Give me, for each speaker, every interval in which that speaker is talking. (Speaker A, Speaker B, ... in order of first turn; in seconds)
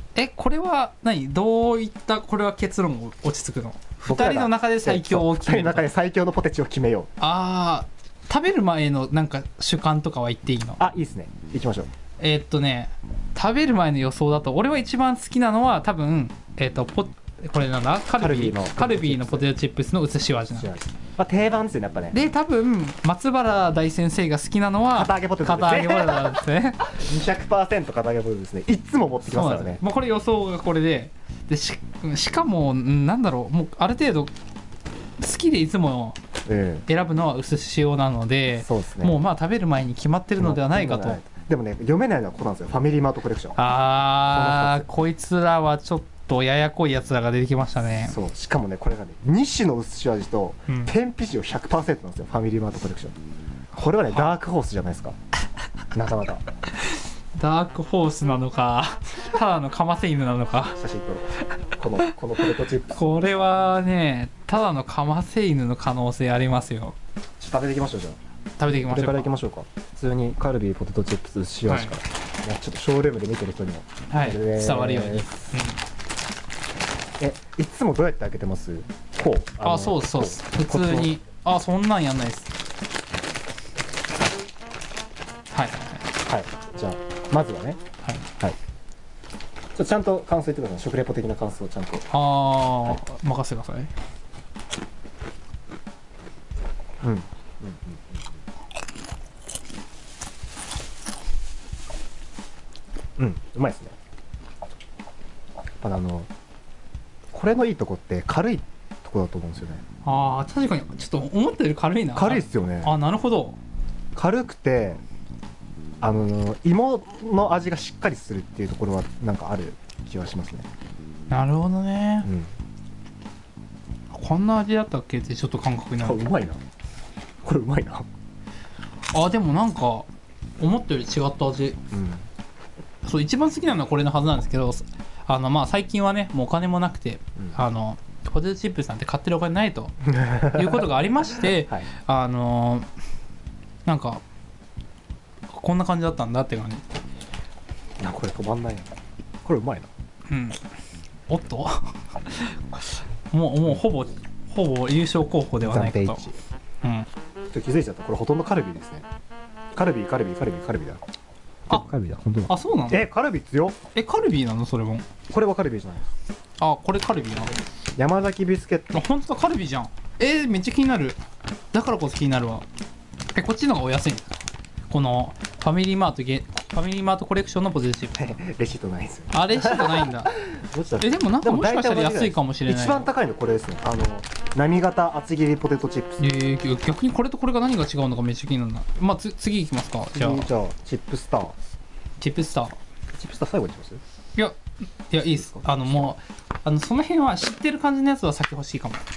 Speaker A: 0.1-5.9, 7.2-10.8, 12.2-20.7, 22.1-26.9, 29.2-34.3, 35.2-36.2, 36.9-41.2, 43.6-48.2, 50.7-50.9, 56.8-60.8, 62.0-67.0, 68.6-69.3, 71.7-72.0, 74.1-75.8, 79.6-82.5, 85.5-86.1, 92.1-93.9, 110.0-113.6, 121.3-122.3, 124.1-126.2, 129.1-131.8, 133.0-142.9, 143.8-144.2, 145.5-146.9, 150.3-150.6, 151.3-156.2, 156.8-157.1, 162.5-163.0, 163.9-165.1, 166.6-167.6, 168.9-171.2, 171.7-172.7, 173.3-174.4, 174.9-178.2, 179.3-180.3, 181.0-183.1, 186.2-190.5, 192.2-192.8, 195.1-199.0
Speaker B: 4.1-7.1, 10.8-11.9, 18.2-19.5, 20.5-22.2, 24.9-29.8, 36.5-36.9, 38.6-39.2, 40.4-43.6, 44.2-44.9, 48.1-53.2, 53.8-55.2, 55.9-56.4, 60.8-63.2, 67.4-68.2, 68.7-75.5, 77.2-81.1, 86.3-87.8, 89.8-92.1, 97.0-98.2, 103.2-104.0, 105.8-106.3, 107.3-109.8, 112.2-113.0, 114.2-115.0, 116.0-120.7, 122.2-122.5, 126.0-126.6, 127.4-128.1, 131.9-132.3, 140.1-140.9, 141.4-141.9, 148.0-148.9, 149.4-149.9, 155.6-156.4, 157.5-159.1, 159.8-161.0, 161.7-163.8, 165.3-166.1, 168.0-169.0, 178.2-186.3, 190.2-191.6, 193.1-194.0, 195.4-196.1